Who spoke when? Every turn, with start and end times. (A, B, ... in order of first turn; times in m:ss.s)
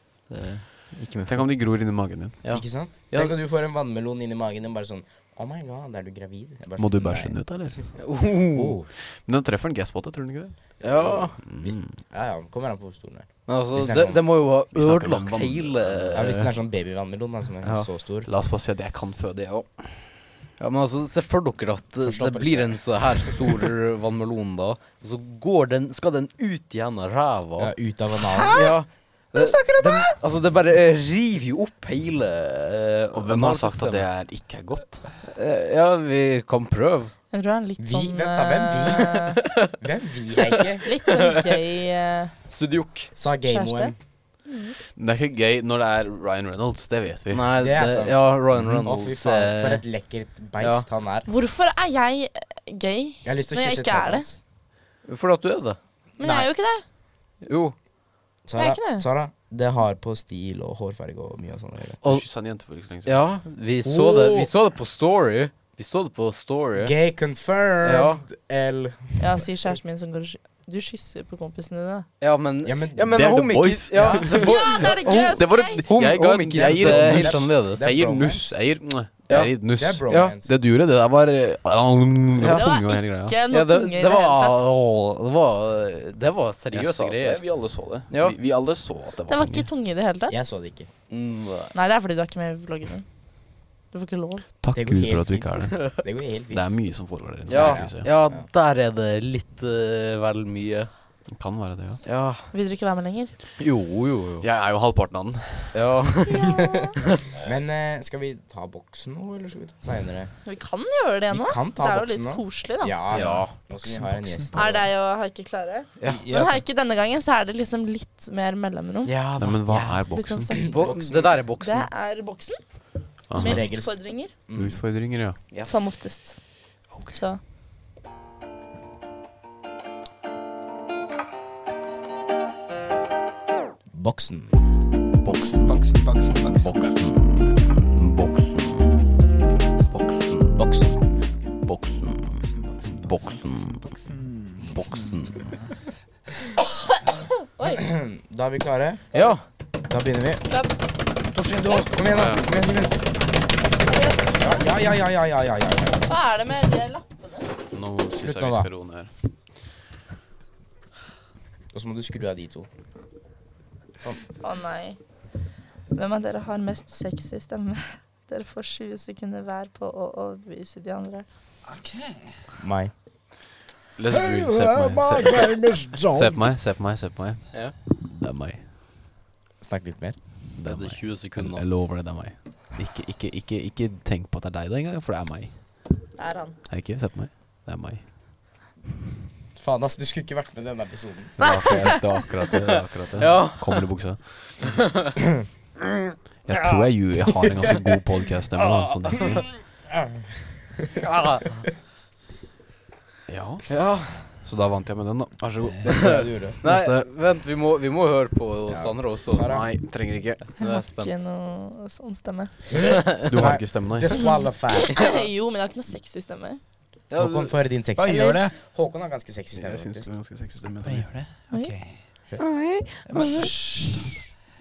0:00.2-0:01.9 A
0:01.2-0:02.5 B
0:02.4-0:03.4 A
0:02.5-0:07.9 C
0:06.8-0:07.9 B
0:08.0-0:08.8 A
0:08.5-0:08.9 C
0:09.0-0:11.9 B
0:10.8-0:11.4 A
0:11.0-0:14.4 C
0:13.4-0:16.3 A
0:14.7-0:16.5 B
0:16.1-0:18.3 C
0:18.2-0:20.1 B
0:20.6-0:27.7 A
0:22.0-0:23.4 C
0:27.6-0:28.6 C
0:28.2-0:28.8 D
0:28.5-0:34.1 A
0:29.3-0:30.2 D
0:33.1-0:35.0 B
0:35.2-0:37.1 A
0:37.3-0:39.4 E
0:37.8-0:40.9 C
0:40.8-0:42.3 E
0:41.1-0:41.6 A
0:42.5-0:43.1 A
0:43.1-0:43.9 C
0:43.5-0:43.9 E
0:44.4-0:44.8 E
0:44.9-0:47.5 B
0:47.3-0:49.9 A
0:47.6-0:51.3 C
0:48.6-0:48.8 B
0:50.6-0:50.9 A
0:51.3-0:54.3 E
0:53.2-0:54.4 C
0:55.0-0:55.8 A
0:56.2-0:56.8 E
0:56.2-0:56.5 D
0:57.4-0:57.8 A
0:58.4-1:02.0 C
0:58.5-0:59.0 E
1:02.0-1:03.4 B
1:03.0-1:06.9 A
1:03.8-1:04.5 C
1:06.8-1:09.8 C
1:07.8-1:08.2 A
1:09.2-1:12.0 E
1:12.2-1:17.9 A
1:12.6-1:13.2 C
1:13.1-1:23.4 B
1:13.9-1:14.4 C
1:14.3-1:15.9 E
1:16.5-1:18.6 C
1:19.3-1:20.4 A
1:19.3-1:20.6 C
1:22.4-1:24.6 E
1:23.5-1:27.4 A
1:26.7-1:29.7 B
1:28.1-1:28.4 A
1:29.3-1:30.4 E
1:30.3-1:30.9 C
1:31.1-1:31.8 A
1:31.7-1:33.0 E
1:33.9-1:34.4 E
1:34.6-1:38.1 B
1:34.7-1:36.7 C
1:37.5-1:38.5 C
1:37.5-1:40.9 A
1:41.3-1:42.0 B
1:42.0-1:42.5 A
1:42.5-1:43.3 E
1:43.6-1:44.5 A
1:44.4-1:45.8 B
1:45.7-1:46.6 A
1:46.4-1:46.8 E
1:47.4-1:50.3 C
1:50.4-1:53.0 E
1:51.3-1:54.9 C
1:53.1-1:53.5 A
1:53.8-1:54.8 D
1:54.5-1:59.2 E
1:56.0-1:56.2 A
1:56.0-1:56.6 D
1:59.0-2:00.0 A
1:59.3-2:00.6 B
2:00.1-2:00.8 E
2:00.5-2:01.4 C
2:00.6-2:01.9 A
2:01.6-2:02.6 E
2:03.3-2:03.7 B
2:03.3-2:04.3 E
2:03.4-2:04.8 C
2:04.5-2:05.5 B
2:05.5-2:07.4 E
2:06.9-2:07.2 B
2:13.9-2:14.6 C
2:15.2-2:17.1 D
2:15.3-2:15.7 A
2:16.6-2:19.1 A
2:19.9-2:20.6 A
2:20.5-2:21.0 C
2:21.6-2:22.5 A
2:22.4-2:25.6 D
2:23.0-2:23.8 A
2:24.6-2:25.5 A
2:26.6-2:27.8 E
2:27.7-2:29.3 C
2:29.1-2:29.4 A
2:29.9-2:30.4 C
2:30.5-2:30.7 E
2:31.3-2:31.9 A
2:31.7-2:33.0 C
2:32.1-2:32.5 B
2:33.8-2:34.7 E
2:34.4-2:36.0 C
2:36.0-2:37.5 E
2:37.7-2:39.1 B
2:38.2-2:38.7 C
2:41.7-2:42.7 C
2:44.4-2:45.0 E
2:45.9-2:51.2 E
2:51.6-2:52.4 D
2:52.6-2:52.9 C
2:54.0-2:58.6 B
2:54.1-2:56.4 C
2:59.6-3:00.2 C
3:00.5-3:06.1 B
3:00.6-3:01.6 A
3:06.2-3:06.6 E
3:06.6-3:08.6 B
3:09.6-3:11.4 C
3:11.4-3:14.8 B
3:11.4-3:12.2 E
3:13.2-3:13.8 A
3:16.4-3:19.5 B
3:19.9-3:21.0 C
3:21.0-3:21.6 A
3:23.3-3:27.0 B
3:23.7-3:24.4 A
3:25.8-3:26.6 C
3:25.8-3:29.7 A
3:28.7-3:29.7 C
3:29.3-3:30.5 B
3:30.4-3:31.2 A
3:30.6-3:32.8 E
3:32.7-3:35.0 C
3:33.2-3:34.2 B
3:34.1-3:36.6 E
3:37.1-3:37.5 A
3:37.1-3:40.1 C
3:38.0-3:38.6 D
3:38.0-3:38.4 E
3:39.6-3:41.1 B
3:40.7-3:42.0 D
3:42.4-3:43.5 A
3:43.1-3:44.2 D